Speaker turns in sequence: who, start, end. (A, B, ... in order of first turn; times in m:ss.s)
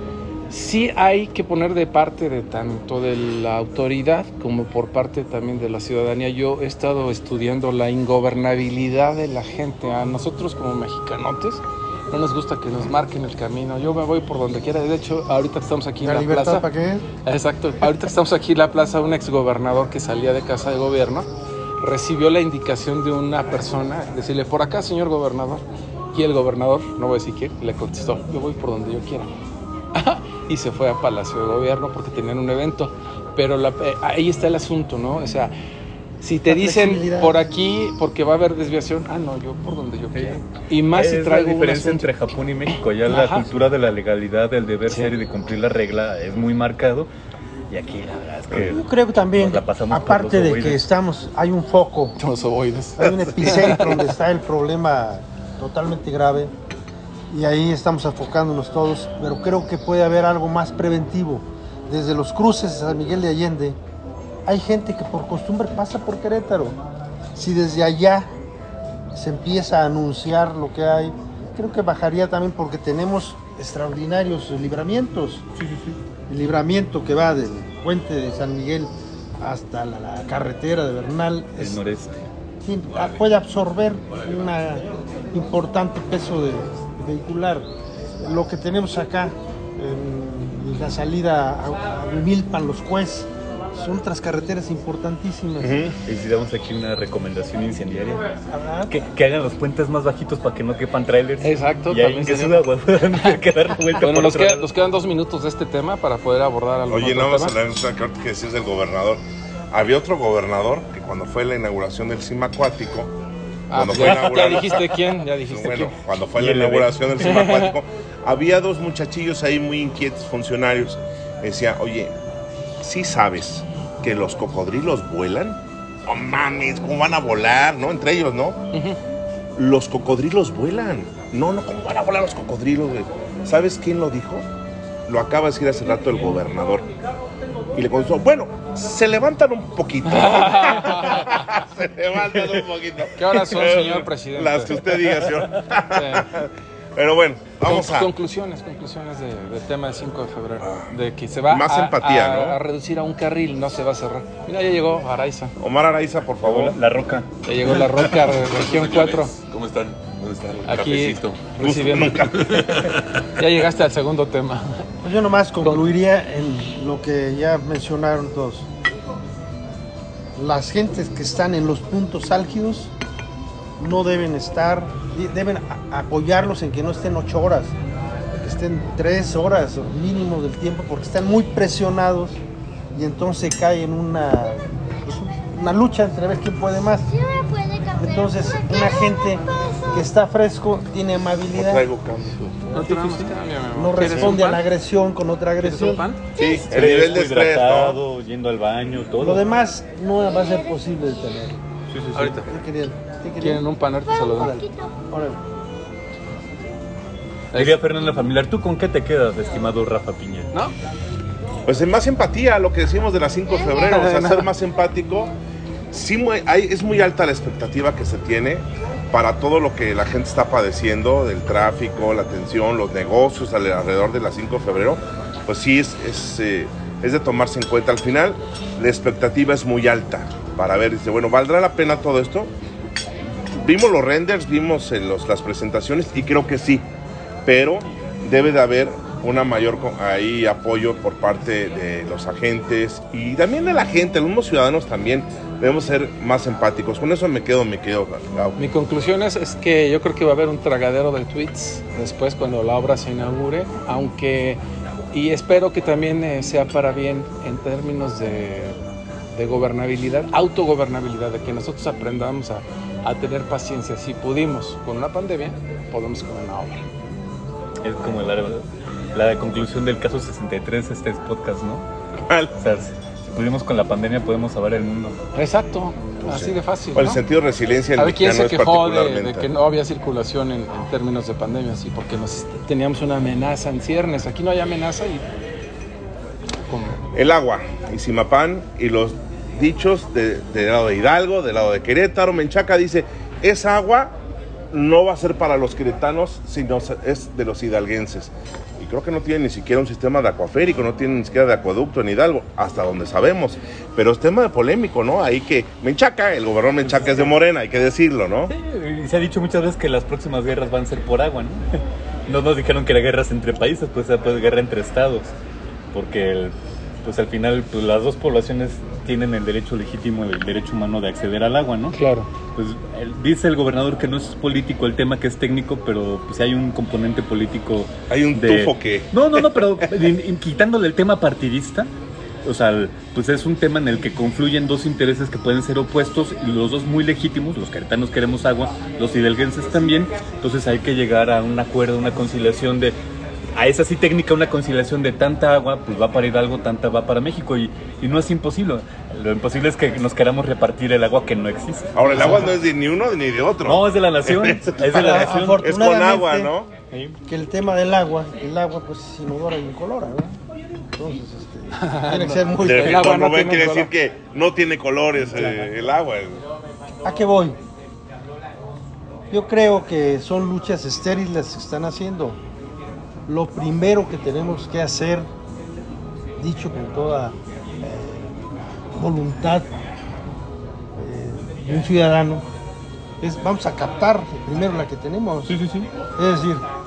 0:00.5-0:16.6 A
0:16.0-0:17.1 B
0:17.2-0:21.3 A
0:21.8-0:29.3 A
0:29.9-0:35.5 A
0:36.2-0:42.1 A
0:36.5-0:37.4 B
0:40.1-0:47.1 C
0:43.0-0:43.5 A
0:47.7-0:50.9 C
0:48.5-0:52.2 B
0:52.2-0:54.1 A
0:53.0-0:56.5 B
0:57.3-1:03.8 B
1:04.4-1:06.8 B
1:07.3-1:08.3 B
1:09.1-1:15.4 B
1:15.6-1:16.0 C
1:16.3-1:21.8 B
1:21.6-1:22.2 C
1:22.6-1:27.7 B
1:22.9-1:23.2 D
1:28.2-1:35.9 B
1:35.6-1:35.9 E
1:36.0-1:38.2 C
1:38.5-1:38.9 B
1:38.9-1:44.7 C
1:41.4-1:43.4 A
1:44.0-1:47.6 A
1:46.9-1:53.1 E
1:53.7-1:56.0 A
1:53.7-2:02.1 E
1:56.4-1:57.0 C
1:57.2-1:57.7 A
2:02.8-2:08.6 E
2:08.7-2:09.0 A
2:09.6-2:14.5 E
2:15.1-2:16.8 E
2:17.7-2:28.1 E
2:20.0-2:21.6 A
2:23.2-2:25.3 A
2:25.9-2:26.3 A
2:27.6-2:35.6 A
2:30.6-2:30.9 E
2:31.5-2:32.6 E
2:35.6-2:36.8 E
2:36.4-2:38.1 C
2:37.4-2:39.3 A
2:38.3-2:41.5 D
2:40.6-2:42.8 A
2:41.6-2:42.6 E
2:42.1-2:43.2 D
2:43.4-2:44.9 A
2:45.0-2:48.7 B
2:50.4-2:52.9 B
2:53.8-2:57.7 B
2:58.3-3:02.4 B
3:02.9-3:11.8 B
3:11.5-3:12.4 E
3:12.5-3:14.6 A
3:12.6-3:16.0 B
3:15.6-3:16.2 A
3:16.4-3:19.4 C
3:16.4-3:18.0 E
3:19.2-3:21.6 B
3:21.9-3:22.4 C
3:22.1-3:22.5 A
3:22.4-3:23.7 B
3:23.4-3:24.6 A
3:24.2-3:25.4 B
3:27.5-3:30.5 C
3:31.6-3:35.3 E
3:33.6-3:34.5 A
3:35.9-3:52.5 E
3:53.6-3:56.8 E
3:57.4-4:08.6 E
4:08.6-4:14.6 A
4:15.1-4:18.8 A
4:19.3-4:26.8 A
4:27.8-4:31.9 C
4:32.3-4:32.5 E
4:32.6-4:35.2 C
4:35.3-4:37.2 A
4:36.2-4:39.5 E
4:38.0-4:45.2 A
4:46.6-4:47.0 A
4:47.1-4:54.2 E
4:54.7-5:08.5 E
5:06.8-5:07.3 C
5:08.5-5:15.3 C
5:15.9-5:22.0 C
5:21.9-5:22.3 A
5:22.5-5:31.9 C
5:28.1-5:29.8 E
5:32.4-5:43.0 C
5:43.5-5:52.5 C
5:51.9-5:56.7 E
5:53.6-5:55.6 C
5:54.9-5:56.5 B
5:56.9-5:57.2 C
5:57.2-6:00.4 B
6:01.0-6:03.3 B
6:01.8-6:03.9 A
6:02.6-6:06.4 E
6:05.2-6:05.6 B
6:07.0-6:07.6 B
6:09.3-6:12.4 B
6:13.3-6:15.3 B
6:16.4-6:18.4 B
6:18.9-6:19.7 B
6:21.0-6:22.4 B
6:23.2-6:25.5 B
6:25.5-6:25.9 C
6:26.2-6:26.6 B